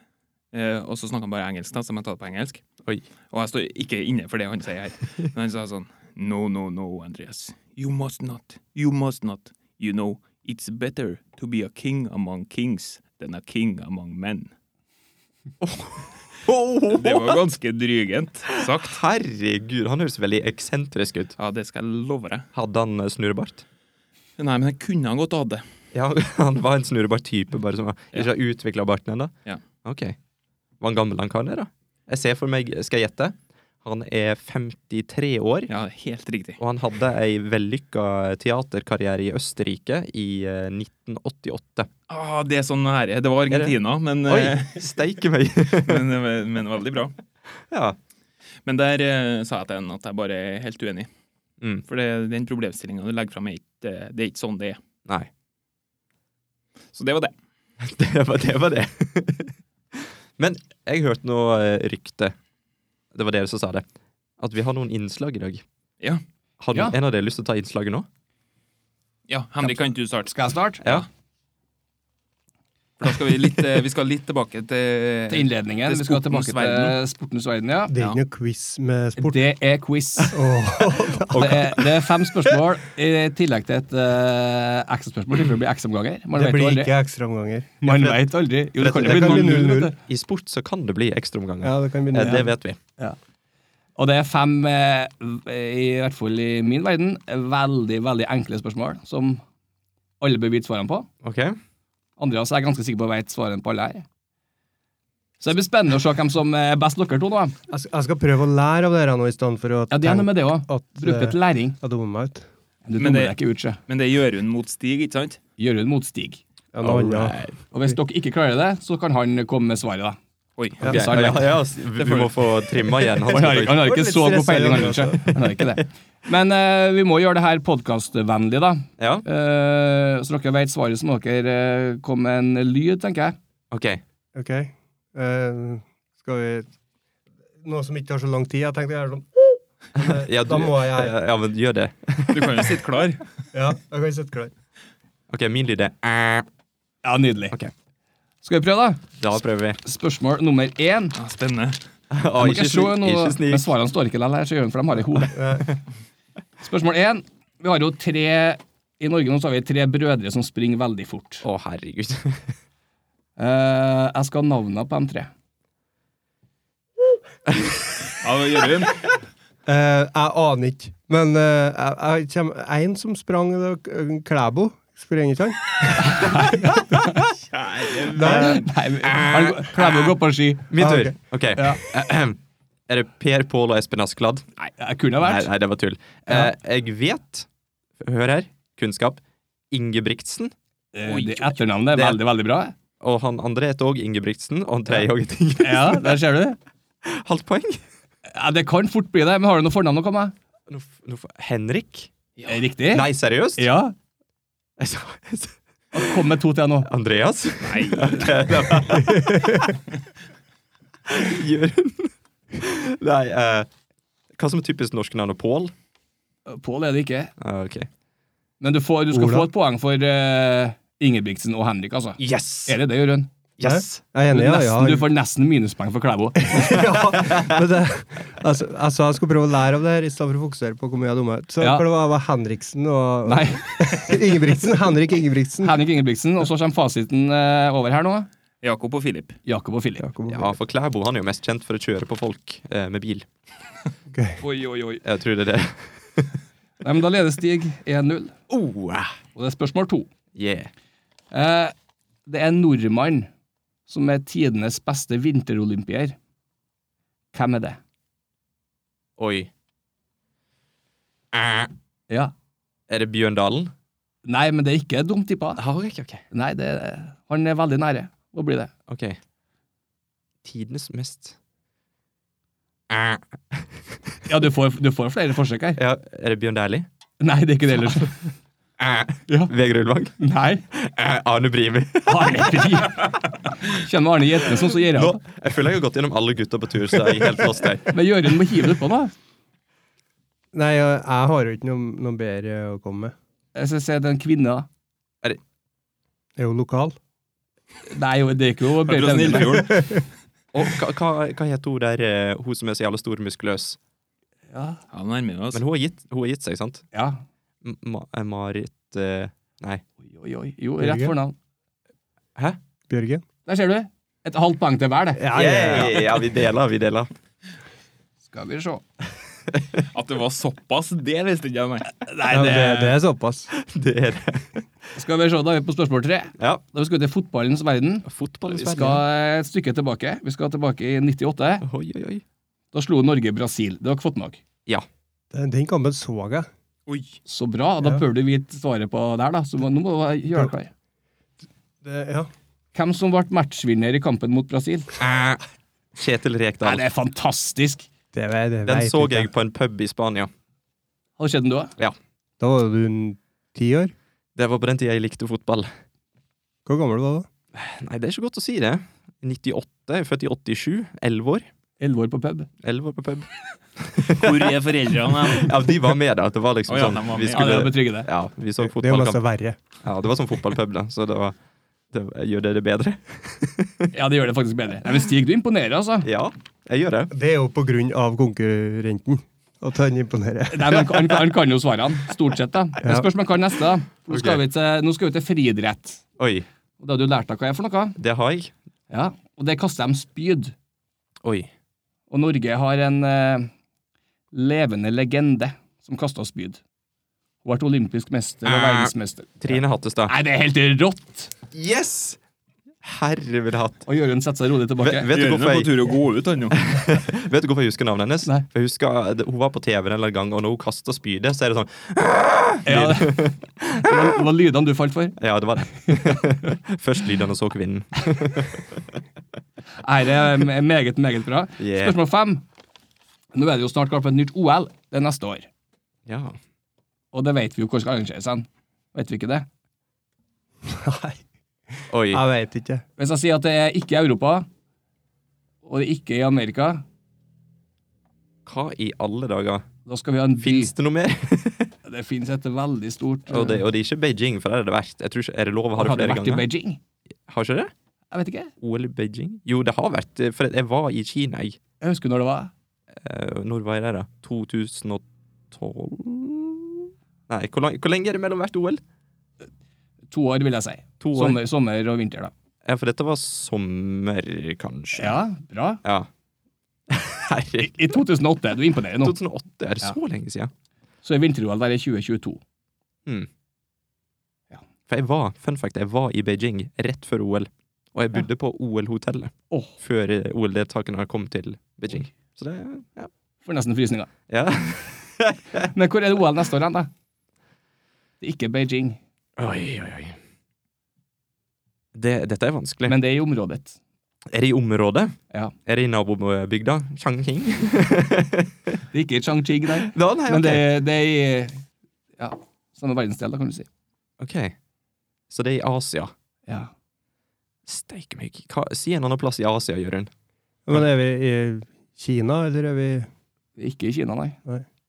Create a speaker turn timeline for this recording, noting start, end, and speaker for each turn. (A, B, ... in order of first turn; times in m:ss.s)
0:00.5-0:02.6 A
0:03.3-0:14.5 A
0:15.6-0:17.4 B
0:16.9-0:19.0 A
0:18.5-0:21.4 B
0:21.4-0:22.5 A
0:22.5-0:23.6 B
0:24.4-0:25.6 A
0:25.9-0:29.3 B
0:29.8-0:30.2 B
0:30.8-0:35.7 B
0:35.7-0:36.6 A
0:36.6-0:41.9 B
0:42.1-0:44.8 A
0:43.5-0:46.0 B
0:45.8-0:47.1 A
0:47.7-0:48.0 B
0:48.6-0:51.1 A
0:51.9-0:54.8 A
0:56.9-0:57.3 A
0:57.8-1:02.4 B
1:03.1-1:03.9 B
1:04.4-1:05.6 B
1:06.6-1:08.1 B
1:09.3-1:11.0 A
1:09.6-1:10.8 C
1:13.0-1:17.0 A
1:15.3-1:17.9 C
1:17.9-1:19.4 D
1:19.2-1:20.4 C
1:20.3-1:21.8 D
1:21.3-1:26.9 C
1:26.3-1:28.2 D
1:27.8-1:30.0 C
1:28.8-1:32.8 B
1:28.8-1:29.9 D
1:31.6-1:32.5 D
1:32.2-1:33.2 C
1:34.0-1:39.4 C
1:40.2-1:41.1 C
1:41.2-1:41.6 B
1:42.2-1:44.0 C
1:45.4-1:47.6 C
1:47.7-1:52.4 D
1:49.9-1:51.8 C
1:52.9-1:53.8 C
1:53.0-1:53.4 A
1:53.9-1:55.4 A
1:55.6-1:56.4 C
1:56.7-1:57.4 D
1:56.8-1:57.6 B
1:57.7-2:00.2 C
2:00.6-2:01.3 A
2:00.8-2:01.5 C
2:00.8-2:03.9 B
2:02.0-2:02.5 A
2:03.2-2:13.4 C
2:03.7-2:05.3 D
2:09.0-2:09.2 B
2:13.7-2:14.0 B
2:14.4-2:16.7 D
2:17.6-2:21.1 D
2:20.0-2:22.8 B
2:22.3-2:23.3 A
2:23.5-2:24.5 D
2:25.3-2:26.4 B
2:27.0-2:27.6 C
2:28.4-2:29.0 C
2:29.2-2:29.8 B
2:29.8-2:31.1 C
2:31.2-2:31.8 A
2:32.1-2:33.7 B
2:32.4-2:35.4 C
2:35.3-2:35.7 D
2:36.6-2:41.4 C
2:41.4-2:42.6 B
2:43.4-2:45.3 C
2:47.5-2:47.9 B
2:48.1-2:49.1 A
2:49.7-2:56.8 D
2:56.0-2:57.2 C
2:57.3-2:58.7 A
2:58.1-2:58.6 D
2:58.2-3:00.9 C
2:59.0-3:04.5 B
3:00.8-3:01.1 D
3:01.6-3:01.8 C
3:04.8-3:05.5 C
3:05.2-3:07.5 B
3:08.0-3:10.5 B
3:10.9-3:12.7 C
3:11.0-3:11.6 A
3:11.9-3:12.2 B
3:13.0-3:16.2 B
3:15.6-3:16.6 C
3:17.0-3:17.8 B
3:18.3-3:20.3 C
3:20.7-3:22.1 B
3:22.5-3:23.9 C
3:22.9-3:23.7 B
3:24.8-3:25.6 B
3:25.9-3:26.9 C
3:26.8-3:29.7 B
3:27.6-3:28.8 A
3:29.1-3:29.7 D
3:31.0-3:33.7 B
3:34.3-3:35.7 B
3:36.4-3:37.3 C
3:37.4-3:37.9 B
3:38.6-3:43.3 C
3:39.1-3:39.5 D
3:42.2-3:42.8 B
3:43.6-3:44.0 B
3:43.6-3:45.1 D
3:44.3-3:46.9 C
3:46.4-3:55.8 D
3:47.1-3:47.6 B
3:51.6-3:51.8 C
3:53.2-3:54.4 C
3:55.6-3:58.3 C
3:58.6-3:59.4 A
3:59.4-4:00.0 C
4:00.0-4:00.5 D
4:00.3-4:03.3 B
4:04.1-4:04.4 D
4:04.4-4:05.0 A
4:05.0-4:06.4 B
4:06.8-4:08.4 C
4:08.5-4:09.1 B
4:09.4-4:10.1 C
4:10.4-4:10.7 B
4:11.3-4:11.7 C
4:12.3-4:13.3 C
4:13.9-4:16.2 C
4:17.3-4:17.8 C
4:19.2-4:19.5 B
4:21.3-4:21.7 B
4:22.9-4:23.7 B
4:24.2-4:25.6 C
4:25.6-4:26.2 B
4:26.3-4:28.7 C
4:28.9-4:29.2 B
4:30.4-4:31.4 B
4:32.9-4:34.0 B
4:34.3-4:35.8 C
4:35.8-4:36.9 B
4:37.2-4:38.3 C
4:38.8-4:40.2 B
4:40.2-4:40.6 C
4:40.7-4:43.0 B
4:42.0-4:45.2 C
4:44.7-4:48.0 B
4:47.9-4:49.1 C
4:50.5-4:53.1 D
4:53.6-4:54.7 C
4:56.4-4:57.0 D
4:57.9-4:59.7 C
4:58.8-5:00.0 A
4:59.6-5:00.0 D
5:00.5-5:03.8 B
5:04.5-5:04.8 C
5:04.9-5:05.6 A
5:05.5-5:06.8 B
5:06.9-5:07.2 C
5:07.6-5:09.8 B
5:10.0-5:11.4 C
5:10.8-5:11.2 D
5:12.9-5:13.2 D
5:13.4-5:15.9 C
5:15.1-5:16.2 D
5:15.3-5:17.1 B
5:18.3-5:18.8 C
5:19.5-5:19.8 B
5:19.9-5:22.0 A
5:22.0-5:23.0 C
5:22.3-5:23.5 D
5:23.5-5:24.7 B
5:25.0-5:31.7 C
5:28.0-5:29.0 B
5:31.6-5:32.2 B
5:32.7-5:34.4 C
5:35.3-5:36.5 D
5:36.9-5:37.2 A
5:37.3-5:40.7 C
5:41.8-5:42.3 D
5:42.7-5:44.9 C
5:45.0-5:45.4 B
5:46.0-5:46.8 B
5:46.6-5:47.9 C
5:48.1-5:49.3 D
5:48.7-5:50.3 B
5:51.2-5:51.7 C
5:52.4-5:53.9 D
5:54.4-5:55.7 B
5:56.7-5:57.3 D
5:57.5-6:01.4 B
6:01.8-6:02.5 C
6:02.6-6:09.2 B
6:04.0-6:05.6 A
6:06.7-6:07.7 A
6:07.3-6:08.1 C
6:08.6-6:09.6 D
6:09.8-6:11.4 B
6:11.9-6:13.9 B
6:13.9-6:16.1 C
6:16.0-6:17.1 B
6:17.1-6:21.2 D
6:20.5-6:26.0 C
6:22.8-6:23.1 D
6:24.1-6:24.4 B
6:26.2-6:26.4 B
6:26.8-6:28.0 C
6:28.0-6:28.5 B
6:28.9-6:30.5 C
6:31.2-6:31.5 B
6:32.1-6:33.5 C
6:34.3-6:36.6 C
6:37.4-6:41.3 C
6:38.4-6:40.1 B
6:41.5-6:42.2 B
6:42.8-6:43.9 B
6:43.9-6:45.1 C
6:44.8-6:45.7 B
6:45.1-6:46.6 A
6:46.6-6:54.1 B
6:52.6-6:53.2 C
6:53.8-6:55.2 C
6:55.2-6:59.0 B
6:59.8-7:02.4 C
7:01.6-7:02.0 B
7:03.3-7:05.5 C
7:06.0-7:06.4 B
7:07.1-7:09.5 C
7:10.7-7:12.8 D
7:11.9-7:12.2 B
7:13.0-7:14.5 C
7:15.6-7:16.8 C
7:18.4-7:19.7 B
7:19.9-7:20.7 C
7:20.4-7:21.7 B
7:21.8-7:23.6 C
7:23.3-7:26.5 B
7:25.8-7:26.8 C
7:27.3-7:27.7 B
7:28.1-7:28.5 C
7:28.6-7:31.6 B
7:31.8-7:32.5 C
7:32.9-7:38.8 B
7:40.1-7:42.3 C
7:41.0-7:41.4 B
7:42.6-7:45.2 B
7:45.0-7:45.8 C
7:45.8-7:46.1 B
7:46.9-7:48.0 B
7:47.6-7:49.2 C
7:49.0-7:50.5 B
7:51.0-7:52.4 C
7:54.9-8:03.1 B
8:03.4-8:04.1 C
8:04.3-8:05.7 B
8:05.7-8:06.9 C
8:08.2-8:09.0 C
8:09.4-8:10.2 B
8:11.9-8:13.0 B
8:12.9-8:13.8 C
8:14.3-8:18.8 B
8:18.9-8:21.6 C
8:19.8-8:20.7 B
8:22.2-8:23.7 C
8:24.2-8:24.6 B
8:25.3-8:26.1 B
8:27.7-8:30.1 B
8:30.7-8:33.1 D
8:33.6-8:34.4 C